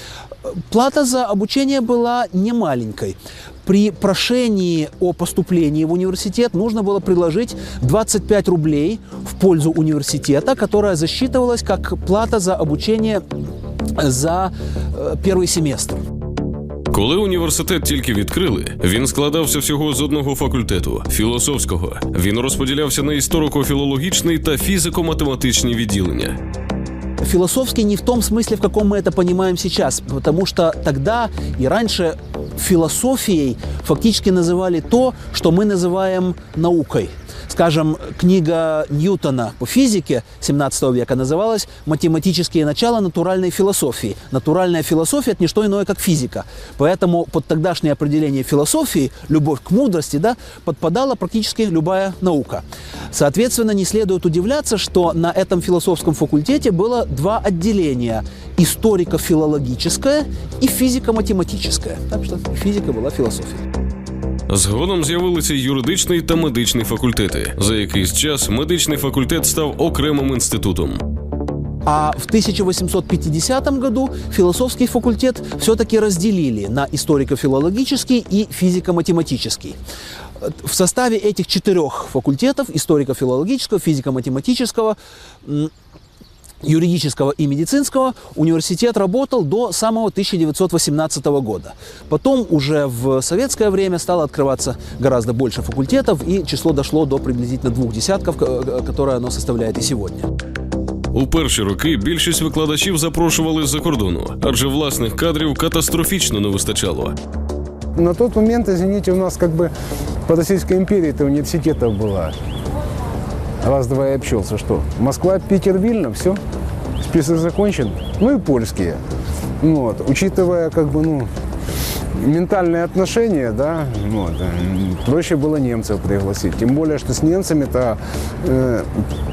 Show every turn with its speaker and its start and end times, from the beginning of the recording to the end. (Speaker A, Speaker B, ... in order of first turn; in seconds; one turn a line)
Speaker A: 0.5-13.2
Speaker A: 13.9-16.0
Speaker B: 16.9-26.4
Speaker A: 27.2-63.6
Speaker B: 64.5-71.0
Speaker A: 71.8-79.8
Speaker A: 80.4-85.7
Speaker A: 86.6-100.3
Speaker B: 101.1-107.1
Speaker C: 107.9-109.7
Speaker C: 110.2-112.3
Speaker C: 113.6-116.4
Speaker C: 117.0-119.0
Speaker C: 119.6-121.3
Speaker C: 122.1-129.0